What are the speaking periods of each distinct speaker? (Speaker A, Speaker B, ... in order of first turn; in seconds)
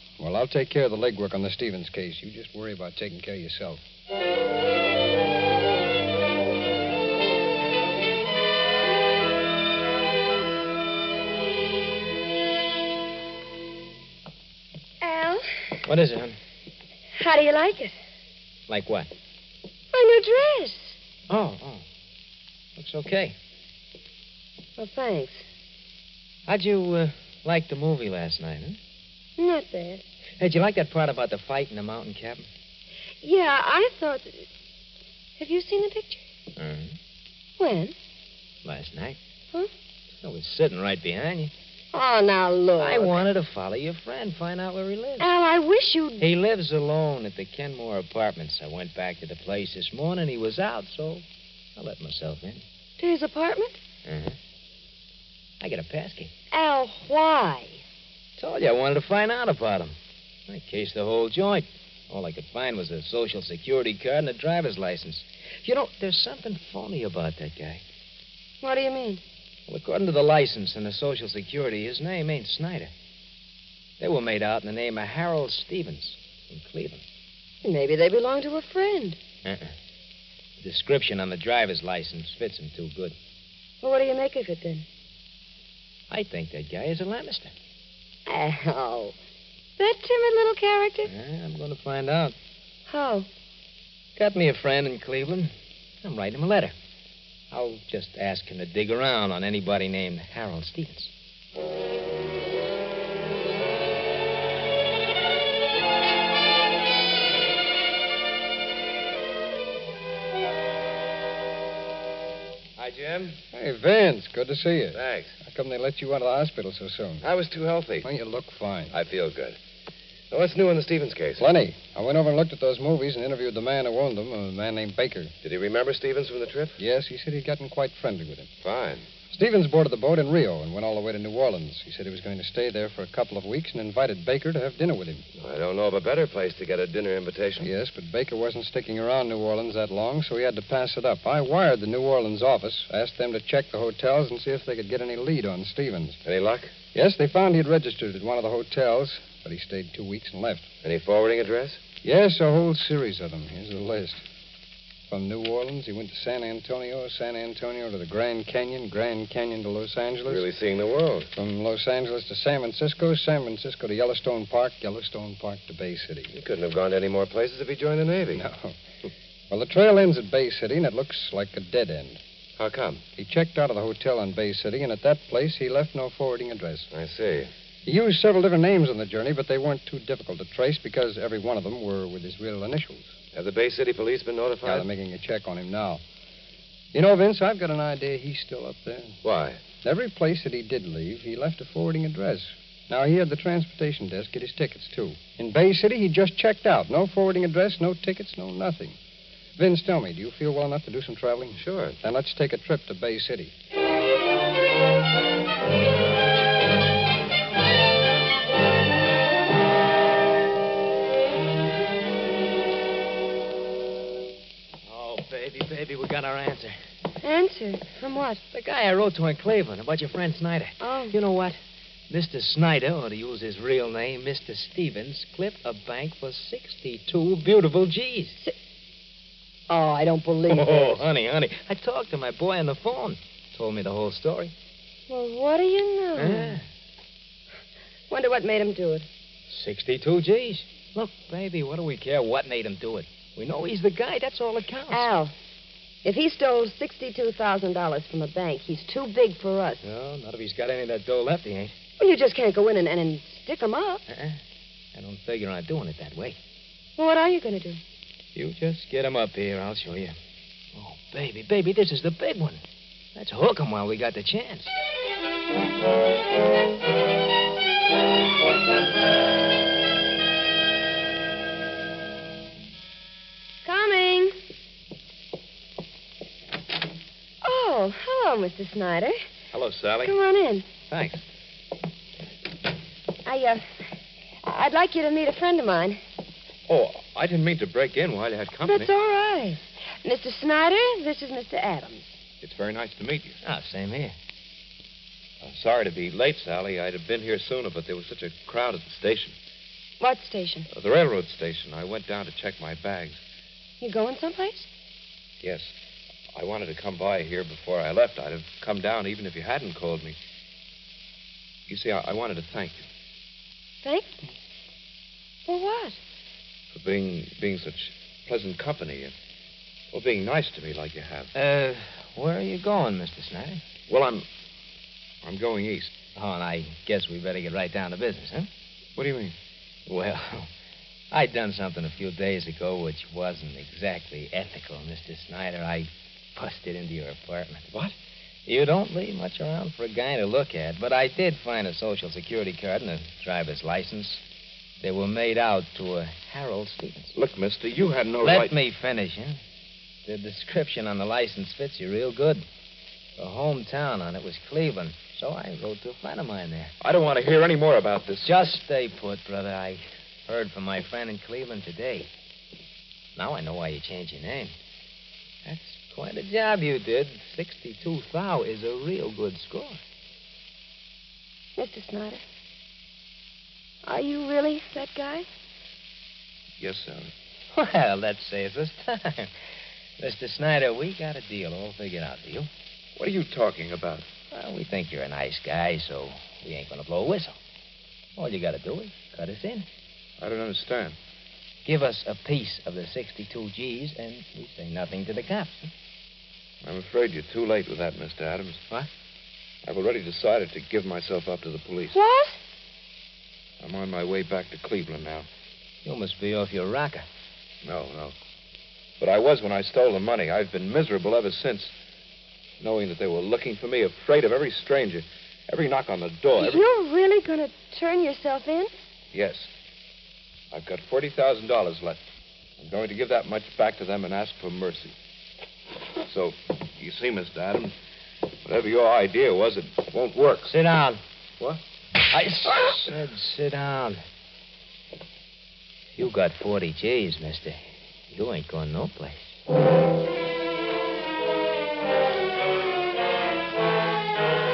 Speaker A: 0.2-3.8, 113.5-117.2, 118.0-118.9, 121.4-125.3, 126.8-128.5, 129.3-135.2, 137.6-146.2, 146.9-150.7, 152.0-154.2, 155.1-160.5, 161.3-166.3, 168.3-168.8, 169.5-172.2, 173.2-176.9, 177.8-183.1, 184.6-186.0, 186.9-189.2, 189.8-199.0, 199.6-203.5
Speaker B: 15.0-15.5, 17.1-18.0, 19.9-21.0, 24.8-25.4, 29.4-30.0, 33.2-34.5, 35.4-36.2, 37.6-37.9, 41.9-43.2, 45.2-46.3, 53.0-53.8, 56.5-57.8, 68.6-69.2, 77.6-79.2, 83.8-84.8, 88.2-89.1, 89.8-91.1, 92.9-93.3, 217.2-218.4, 220.8-221.2, 229.7-231.0, 235.1-236.6, 238.1-239.1, 244.9-245.3, 246.0-249.9, 252.0-254.0, 257.0-257.8, 273.6-274.3, 277.4-279.2, 280.0-280.6, 283.2-283.6, 284.4-286.0, 288.6-292.1, 300.0-300.7, 303.8-304.7, 313.8-314.3, 315.5-316.0, 371.6-372.2, 373.8-375.2, 401.9-402.4, 416.4-418.7
Speaker C: 15.8-16.4, 18.7-19.1, 21.3-21.8, 22.8-23.3, 26.5-28.8, 30.4-32.5, 36.6-37.0, 38.6-39.2, 40.2-41.5, 42.8-45.3, 46.2-51.2, 51.8-52.6, 54.0-54.4, 55.6-56.3, 58.4-60.0, 60.5-67.8, 69.7-72.9, 74.0-77.0, 79.4-79.7, 80.6-83.1, 86.1-87.5, 91.1-92.3, 94.2-95.5, 96.0-96.7, 97.5-101.1, 214.9-216.8, 218.5-221.6, 222.1-228.4, 230.5-234.5, 236.2-236.6, 239.5-245.1, 249.8-251.7, 254.1-254.4, 254.9-256.4, 258.3-260.1, 260.7-262.6, 263.1-264.7, 293.4-294.1, 321.3-323.6, 326.1-328.5, 329.9-330.5, 331.1-337.7, 338.4-344.2, 344.8-347.1, 348.2-349.4, 350.1-352.4, 353.2-356.7, 358.2-362.1, 363.1-364.5, 365.4-369.8, 377.5-379.3, 380.0-382.5, 384.3-387.4, 388.2-389.6, 391.6-395.7, 405.8-407.1, 430.5-431.0, 432.1-434.0, 435.9-437.6, 438.1-439.3
Speaker D: 112.8-113.4, 114.9-115.3, 117.2-118.1, 118.9-119.6, 120.3-121.5, 125.4-126.8, 128.6-129.1, 135.4-137.7, 146.2-146.7, 150.8-151.8, 160.3-161.3, 166.3-168.4, 172.6-173.0, 176.9-177.5, 183.3-184.8, 189.2-189.6, 201.6-201.9
Speaker E: 279.5-280.1, 280.9-281.2, 286.7-288.9, 292.4-293.4, 295.4-299.3, 300.7-303.2, 305.4-305.7, 306.3-310.1, 311.7-312.8, 316.7-319.1, 319.9-321.3, 323.9-324.2, 325.2-325.9, 328.9-329.3, 347.1-348.6, 356.8-358.3, 376.6-377.1, 382.9-384.1, 390.2-391.0, 396.6-398.6, 399.6-401.9, 403.6-405.3, 407.6-408.1, 409.0-411.7, 412.6-416.6, 419.1-419.5, 420.5-422.0, 422.6-424.9, 426.0-427.7, 428.4-430.6, 432.5-432.8